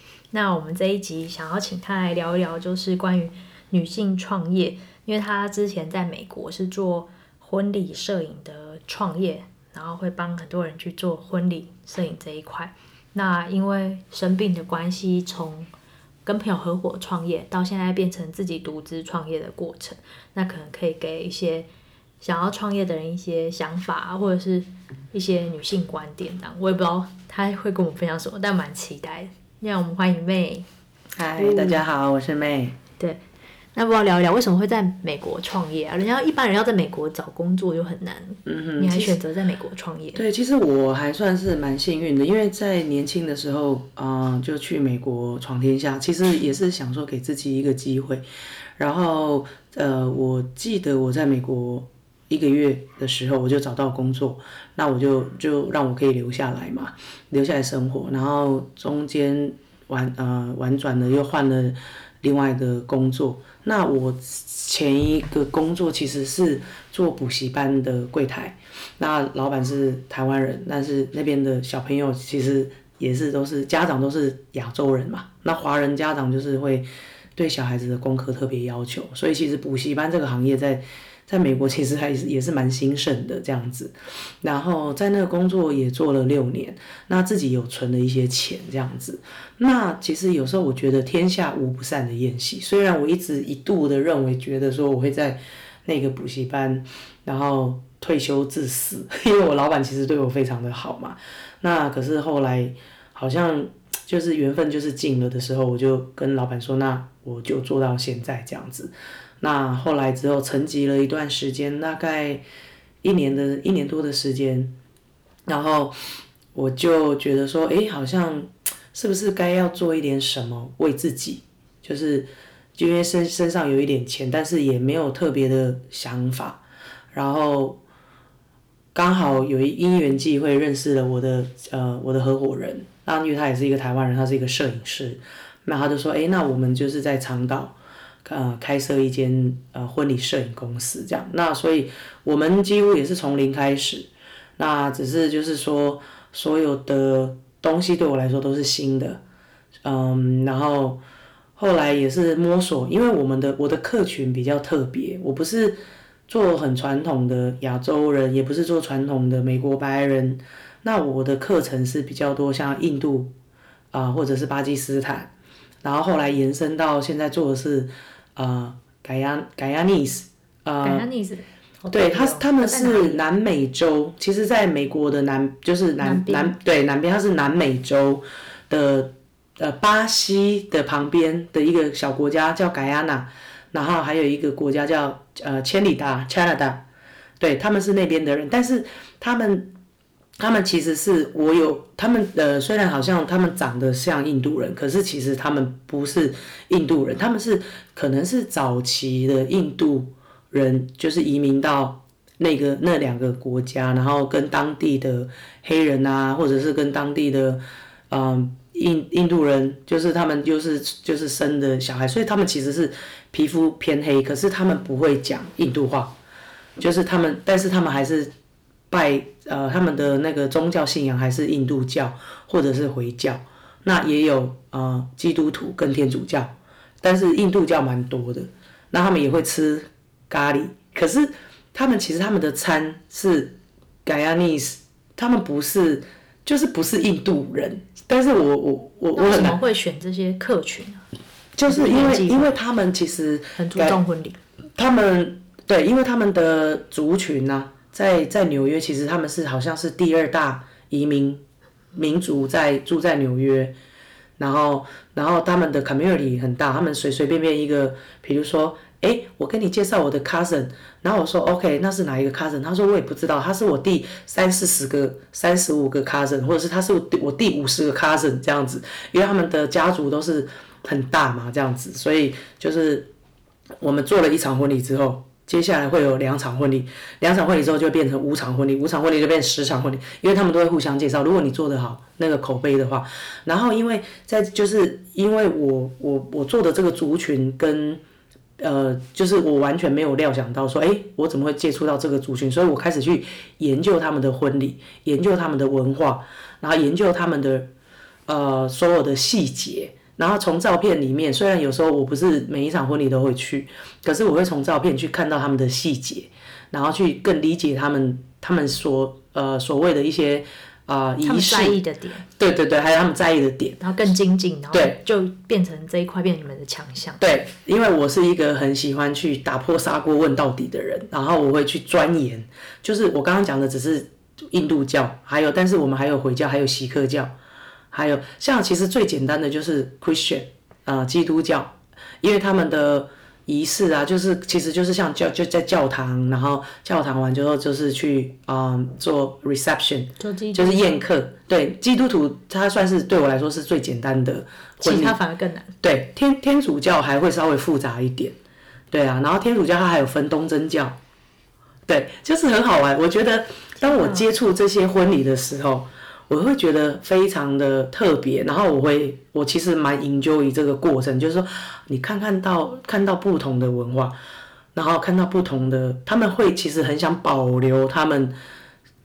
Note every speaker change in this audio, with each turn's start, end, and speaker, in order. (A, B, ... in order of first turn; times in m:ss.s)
0:00.3-0:15.7 A
0:16.2-0:21.7 A
0:22.2-0:30.7 A
0:31.2-0:32.8 B
0:31.4-0:31.8 A
0:33.8-0:40.2 A
0:38.4-0:39.2 B
0:40.2-0:48.3 B
0:48.8-1:52.4 B
1:53.0-1:54.7 B
1:55.5-1:56.0 B
1:56.5-2:06.6 B
2:07.1-2:07.8 B
2:09.0-2:29.2 B
2:29.8-2:31.0 B
2:31.6-2:43.3 B
2:43.9-2:45.3 B
2:45.8-2:51.1 B
2:50.8-2:53.2 A
2:51.9-3:06.8 B
2:56.0-2:56.6 A
3:07.4-3:09.7 B
3:10.4-3:36.2 B
3:36.8-3:38.3 B
3:38.9-3:59.6 B
3:59.2-4:01.0 A
4:01.6-4:04.0 B
4:01.7-4:02.5 A
4:03.6-4:04.4 A
4:04.8-4:11.4 B
4:12.0-4:13.8 B
4:14.4-4:33.1 B
4:33.8-4:48.0 B
4:48.6-4:57.7 B
4:58.3-5:11.8 B
5:11.2-5:12.2 A
5:12.4-5:13.8 B
5:13.8-5:17.2 A
5:14.7-5:15.0 B
5:17.2-5:27.4 B
5:27.9-5:45.2 B
5:40.2-5:41.0 A
5:44.8-5:45.7 A
5:45.8-5:48.4 B
5:48.9-5:51.0 B
5:51.9-6:04.2 B
5:53.8-5:54.3 A
6:04.8-6:08.4 B